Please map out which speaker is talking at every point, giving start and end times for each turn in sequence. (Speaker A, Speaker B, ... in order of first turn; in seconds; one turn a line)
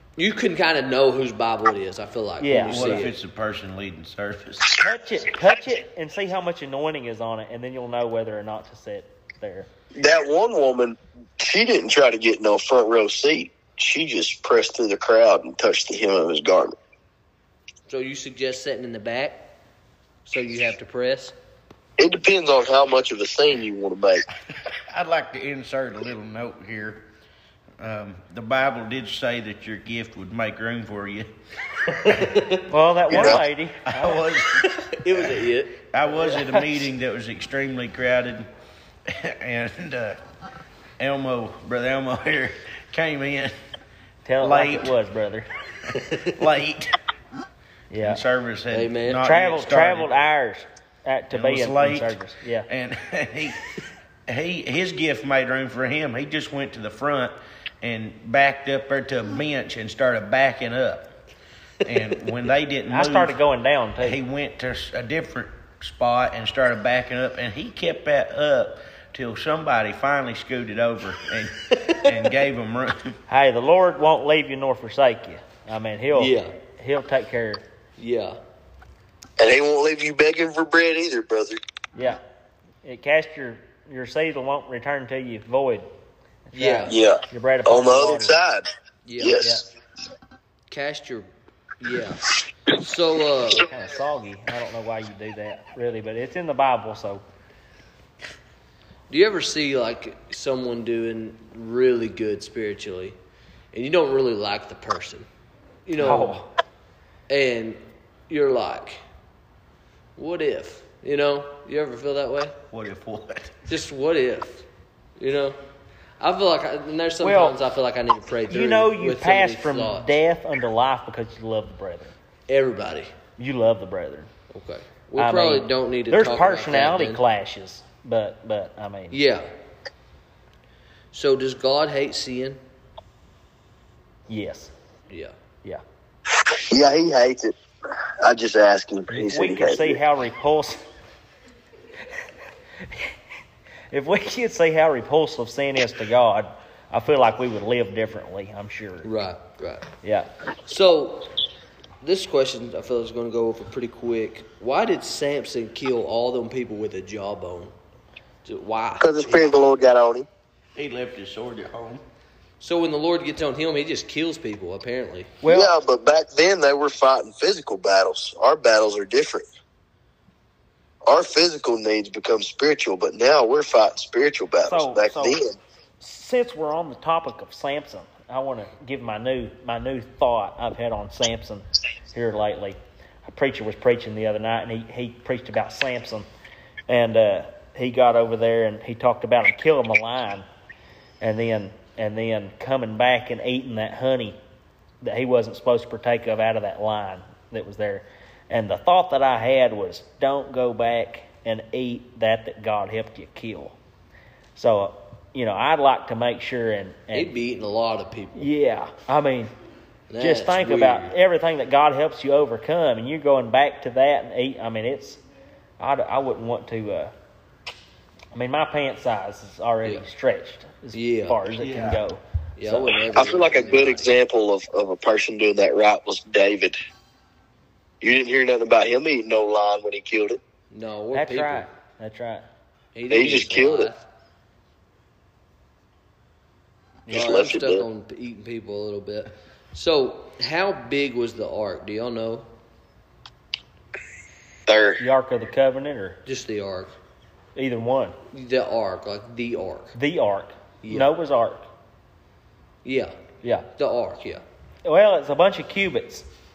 Speaker A: 0.2-3.1
Speaker B: 2.4-3.0
Speaker C: 2.7-4.8
Speaker B: 4.8-9.7
Speaker D: 9.9-16.7
Speaker A: 17.9-19.5
Speaker A: 20.2-21.3
Speaker D: 22.0-24.2
Speaker C: 24.7-27.1
Speaker C: 27.8-31.3
Speaker C: 31.9-32.4
Speaker A: 32.1-32.6
Speaker B: 32.7-34.2
Speaker C: 33.1-38.5
Speaker D: 33.1-33.4
Speaker A: 35.0-36.3
Speaker C: 39.0-40.2
Speaker C: 41.0-43.5
Speaker B: 44.2-45.5
Speaker C: 44.4-44.9
Speaker C: 45.9-47.0
Speaker B: 47.9-48.2
Speaker C: 48.0-50.1
Speaker A: 48.7-49.2
Speaker B: 49.2-52.7
Speaker C: 51.3-53.6
Speaker C: 54.3-61.1
Speaker C: 61.8-63.4
Speaker B: 62.9-64.2
Speaker C: 64.0-73.2
Speaker B: 73.3-77.6
Speaker A: 76.1-76.5
Speaker A: 78.0-78.4
Speaker D: 79.4-81.6
Speaker B: 81.9-82.2
Speaker B: 82.8-85.9
Speaker B: 86.5-88.3
Speaker A: 86.5-87.0
Speaker D: 86.9-88.7
Speaker A: 89.0-89.4
Speaker D: 89.2-89.6
Speaker B: 89.4-89.6
Speaker A: 90.7-91.3
Speaker A: 91.8-93.7
Speaker B: 93.5-97.2
Speaker A: 99.1-103.2
Speaker A: 103.7-105.3
Speaker A: 105.8-106.4
Speaker B: 106.0-106.5
Speaker A: 107.3-109.0
Speaker A: 110.2-112.5
Speaker C: 112.7-113.7
Speaker A: 113.7-114.6
Speaker A: 115.2-115.6
Speaker A: 116.2-120.1
Speaker B: 117.2-117.5
Speaker B: 118.5-122.1
Speaker A: 122.5-123.1
Speaker B: 123.4-124.3
Speaker A: 124.5-127.2
Speaker B: 125.2-129.2
Speaker A: 129.1-129.5
Speaker A: 131.1-132.6
Speaker B: 134.3-134.7
Speaker A: 135.1-135.3
Speaker D: 136.4-137.6
Speaker D: 138.2-140.0
Speaker B: 139.1-140.8
Speaker B: 142.8-143.1
Speaker B: 143.9-149.1
Speaker A: 149.0-149.9
Speaker B: 150.0-150.3
Speaker A: 150.7-151.3
Speaker A: 152.0-157.7
Speaker A: 158.4-159.5
Speaker D: 159.0-160.3
Speaker C: 160.8-162.0
Speaker A: 162.6-165.3
Speaker B: 165.4-165.7
Speaker D: 165.4-169.5
Speaker D: 171.1-175.6
Speaker B: 174.6-175.4
Speaker B: 176.0-186.3
Speaker B: 186.9-190.4
Speaker B: 191.2-194.4
Speaker B: 195.0-203.8
Speaker B: 204.6-207.3
Speaker A: 207.1-208.5
Speaker B: 208.3-209.5
Speaker A: 210.1-211.1
Speaker B: 210.2-215.2
Speaker B: 215.8-217.1
Speaker B: 218.3-223.0
Speaker A: 220.9-221.4
Speaker C: 221.6-222.0
Speaker A: 222.6-224.1
Speaker D: 223.1-226.8
Speaker D: 228.0-230.4
Speaker A: 230.7-231.7
Speaker B: 231.1-232.4
Speaker A: 232.9-234.0
Speaker D: 233.1-233.9
Speaker B: 237.1-237.3
Speaker A: 237.1-242.5
Speaker D: 237.1-237.8
Speaker D: 244.7-245.0
Speaker B: 245.0-246.2
Speaker A: 246.2-246.9
Speaker B: 247.6-248.2
Speaker A: 248.3-249.9
Speaker B: 249.9-251.7
Speaker A: 250.8-251.1
Speaker A: 252.8-253.1
Speaker B: 253.4-253.7
Speaker A: 253.8-254.4
Speaker B: 254.8-256.2